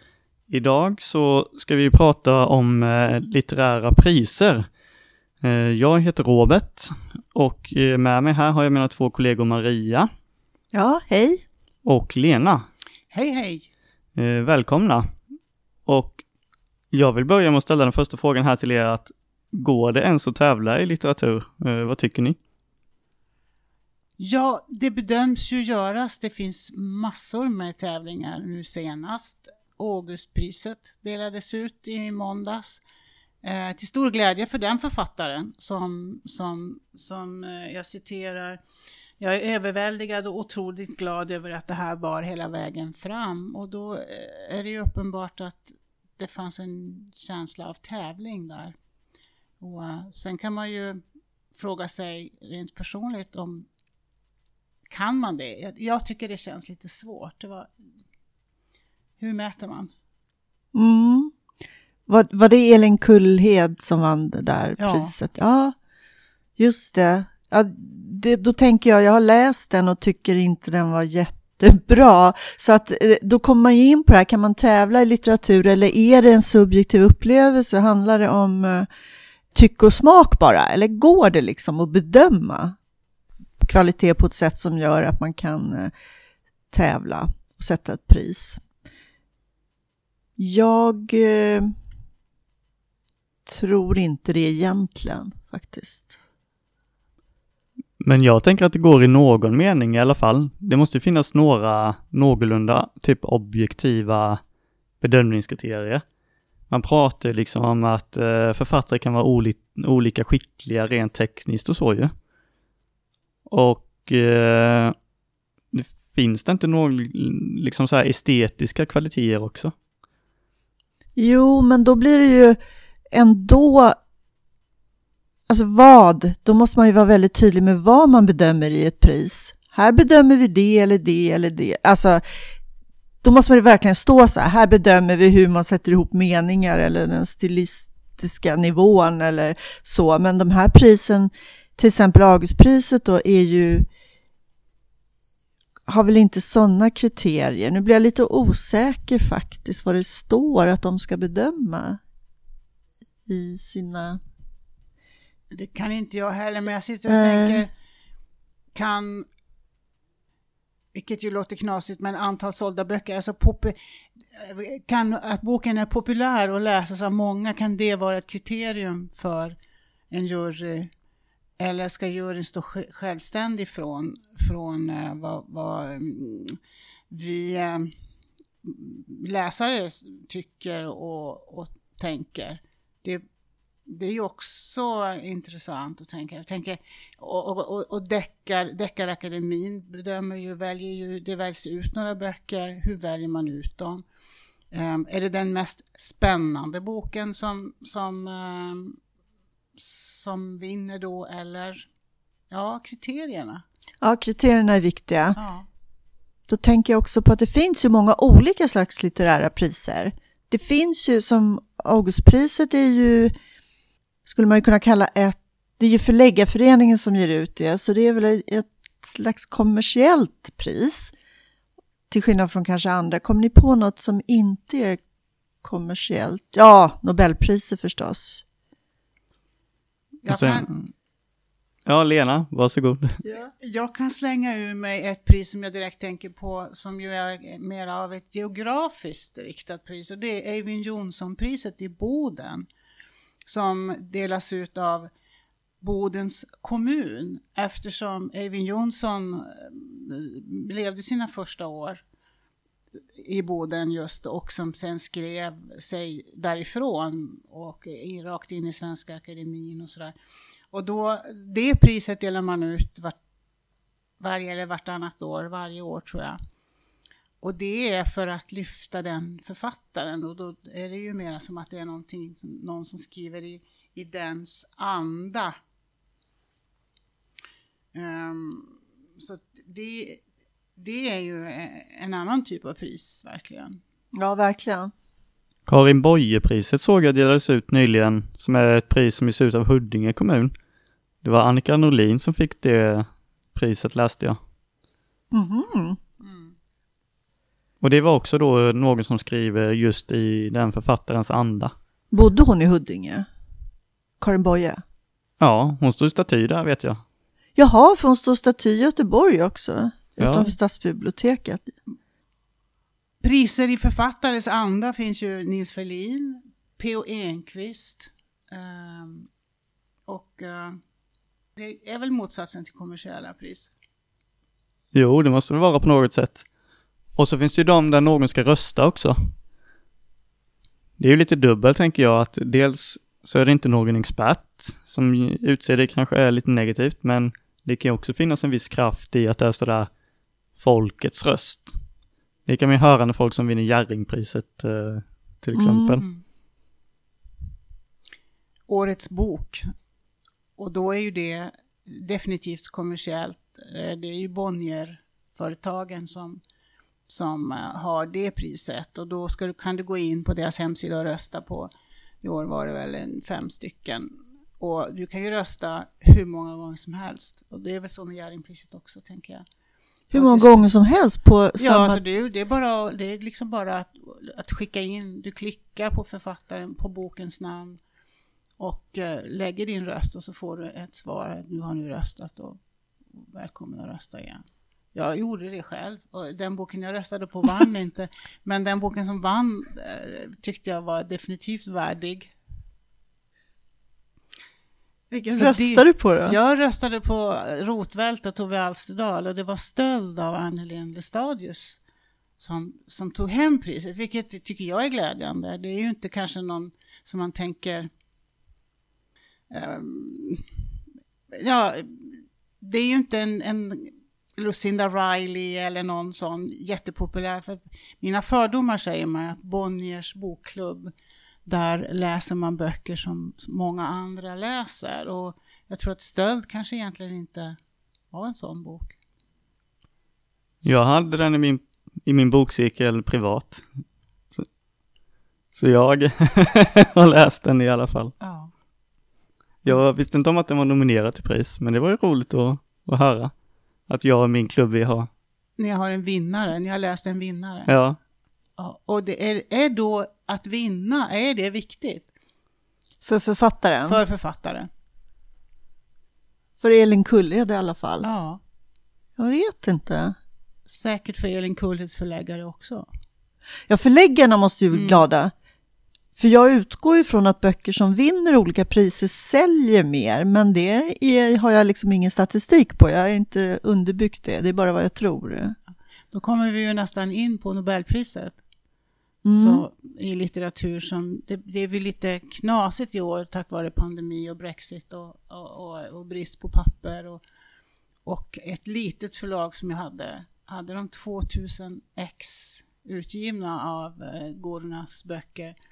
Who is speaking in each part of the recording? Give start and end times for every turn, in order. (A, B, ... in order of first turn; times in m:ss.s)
0:00.5-0:04.7 A
0:05.4-0:10.1 A
0:10.7-0:11.4 B
0:11.8-0:12.6 A
0:13.1-0:13.7 C
0:14.2-0:15.1 A
0:15.8-0:16.2 A
0:16.9-0:22.4 A
0:24.2-0:32.8 C
0:33.4-0:38.6 C
0:39.2-0:48.7 C
0:49.6-0:51.0 C
0:51.5-0:53.7 C
0:54.9-0:57.7 C
0:59.2-0:59.9 C
1:00.7-1:01.3 B
1:02.1-1:05.7 B
1:04.8-1:05.1 C
1:06.6-1:18.9 B
1:19.5-1:22.8 B
1:23.6-1:25.9 B
1:26.7-1:28.6 B
1:30.4-1:31.7 B
1:33.4-1:36.2 B
1:38.0-1:44.4 A
1:45.0-1:46.0 A
1:46.7-1:52.1 A
1:53.5-1:54.9 A
1:55.7-1:59.7 A
2:01.2-2:02.6 B
2:03.1-2:04.0 B
2:05.5-2:12.2 B
2:13.2-2:23.9 B
2:25.9-2:32.0 B
2:33.3-2:34.2 B
2:35.5-2:37.7 C
2:37.1-2:37.6 B
2:38.7-2:39.3 C
2:40.9-2:49.6 C
2:50.1-2:50.9 C
2:51.6-2:56.6 C
2:57.1-2:57.9 C
2:58.6-3:03.2 C
3:03.9-3:14.0 C
3:14.7-3:19.0 C
3:19.8-3:21.9 C
3:22.5-3:23.6 C
3:24.0-3:25.4 B
3:25.4-3:25.7 C
3:26.5-3:33.3 B
3:34.2-3:41.1 B
3:42.1-3:45.0 B
3:45.6-3:48.4 B
3:50.2-3:50.7 C
3:50.3-3:50.8 A
3:51.8-3:53.2 A
3:53.2-3:53.5 B
3:53.6-4:02.6 C
4:03.4-4:05.1 C
4:05.8-4:12.0 C
4:13.2-4:20.1 C
4:20.7-4:23.2 C
4:24.2-4:26.4 C
4:27.4-4:35.5 C
4:37.9-4:40.2 C
4:40.8-4:43.8 C
4:44.1-4:44.9 B
4:45.7-4:50.5 A
4:51.2-4:54.4 A
4:55.3-4:56.0 B
4:56.2-4:56.5 C
4:57.8-5:01.7 A
5:02.1-5:03.3 B
5:04.2-5:04.8 B
5:05.4-5:07.0 A
5:07.6-5:11.7 B
5:10.2-5:10.5 A
5:13.2-5:19.3 C
5:20.1-5:20.8 C
5:21.6-5:23.7 C
5:24.9-5:26.4 A
5:27.1-5:29.3 A
5:31.0-5:39.9 A
5:40.5-5:41.7 A
5:42.4-5:46.0 A
5:45.6-5:46.0 B
5:48.7-5:49.7 C
5:50.6-5:56.4 C
5:57.1-6:01.7 C
6:02.2-6:09.4 C
6:10.1-6:10.7 C
6:10.1-6:12.0 B
6:11.6-6:17.8 C
6:18.6-6:22.6 C
6:23.1-6:24.4 C
6:24.9-6:32.3 C
6:35.1-6:36.4 B
6:35.3-6:41.8 C
6:42.4-6:47.9 C
6:49.5-6:50.5 C
6:51.3-7:00.9 C
7:01.4-7:07.6 C
7:08.1-7:09.0 C
7:10.6-7:13.6 A
7:15.5-7:18.1 A
7:18.2-7:18.5 C
7:19.6-7:23.3 A
7:23.9-7:25.1 A
7:25.6-7:27.7 C
7:27.7-7:28.0 A
7:28.6-7:32.1 C
7:33.0-7:34.0 B
7:33.8-7:34.7 C
7:36.6-7:38.1 B
7:38.0-7:38.4 C
7:39.2-7:40.2 B
7:40.7-7:42.9 C
7:43.7-7:45.3 B
7:44.7-7:45.0 C
7:46.2-7:55.6 B
7:56.1-7:58.4 C
7:59.2-7:59.6 B
7:59.3-8:07.2 C
8:08.0-8:15.5 C